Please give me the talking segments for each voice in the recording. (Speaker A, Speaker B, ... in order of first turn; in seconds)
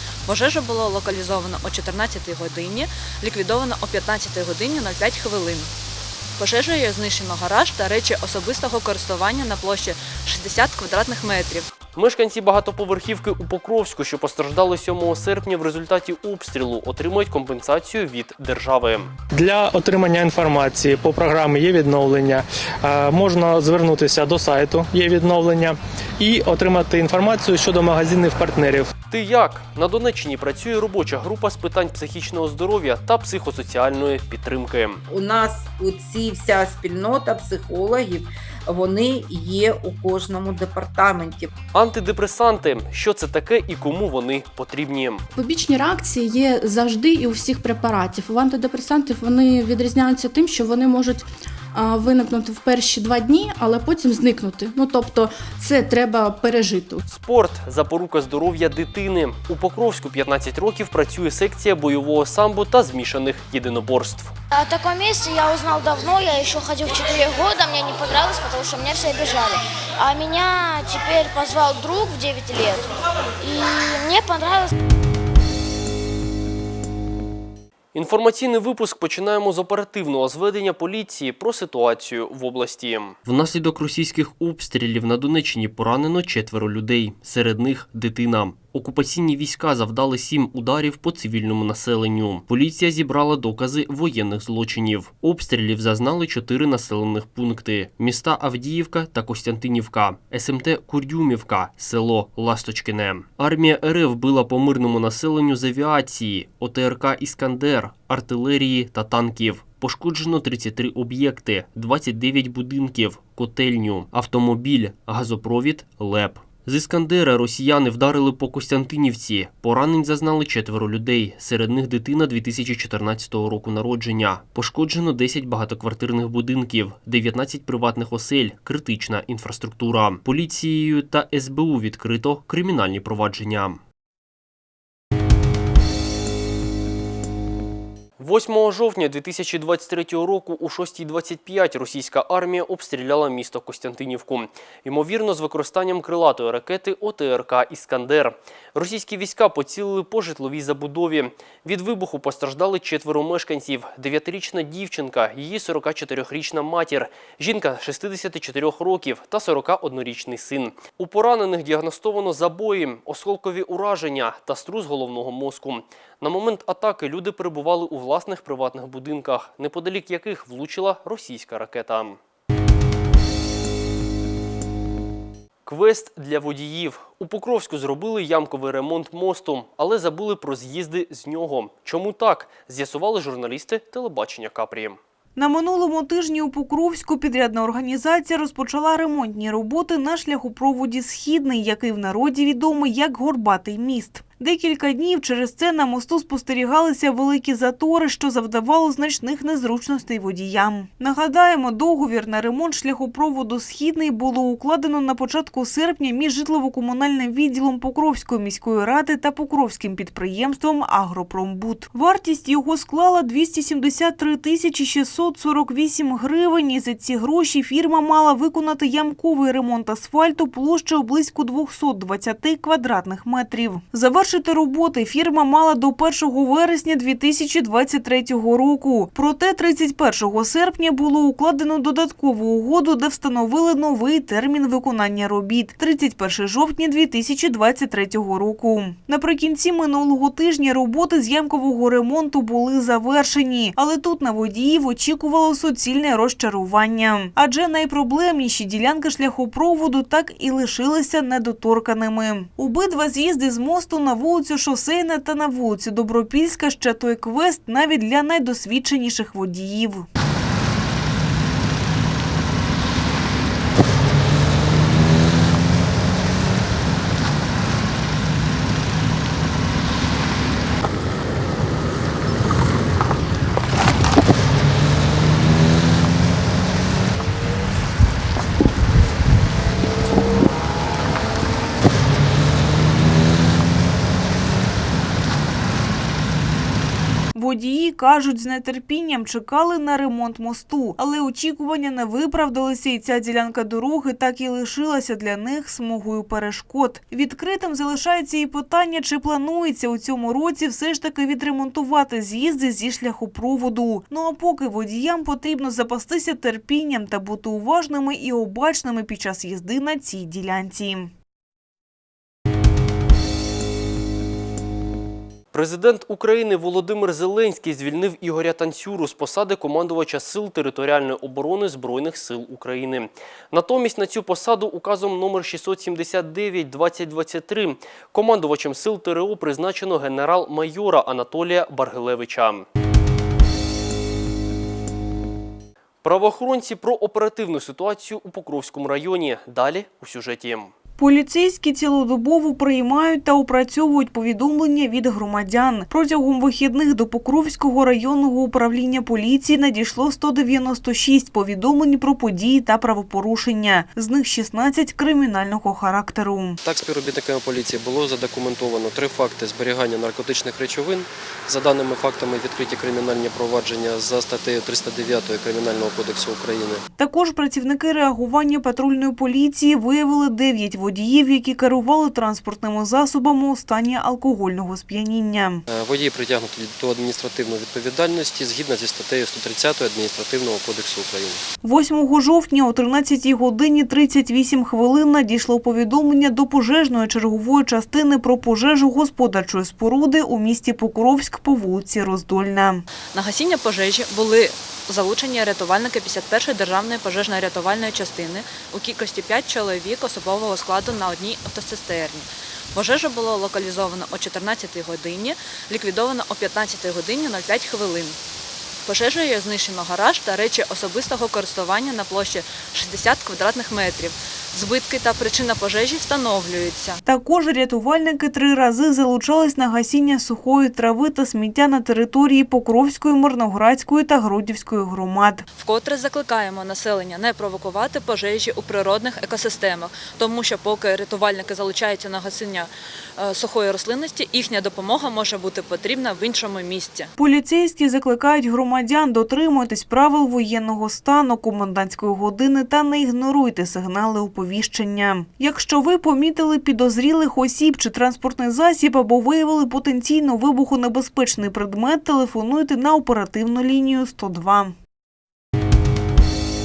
Speaker A: 0.2-5.7, 6.4-11.7, 393.1-408.2, 408.8-417.0, 425.6-437.1
Speaker B: 11.9-19.1, 29.1-35.0, 41.7-45.2, 57.0-64.3, 77.9-133.8, 138.2-172.2, 175.6-185.0, 315.5-332.6, 336.0-340.7
Speaker C: 19.3-28.9
Speaker D: 35.1-41.5
Speaker E: 45.3-57.0
Speaker F: 64.5-72.9, 73.4-74.7
Speaker G: 185.3-260.1, 287.3-311.1, 341.0-356.6, 367.0-375.6, 381.6-392.8, 417.0-425.4, 437.2-454.7
Speaker H: 356.6-366.8, 375.6-381.4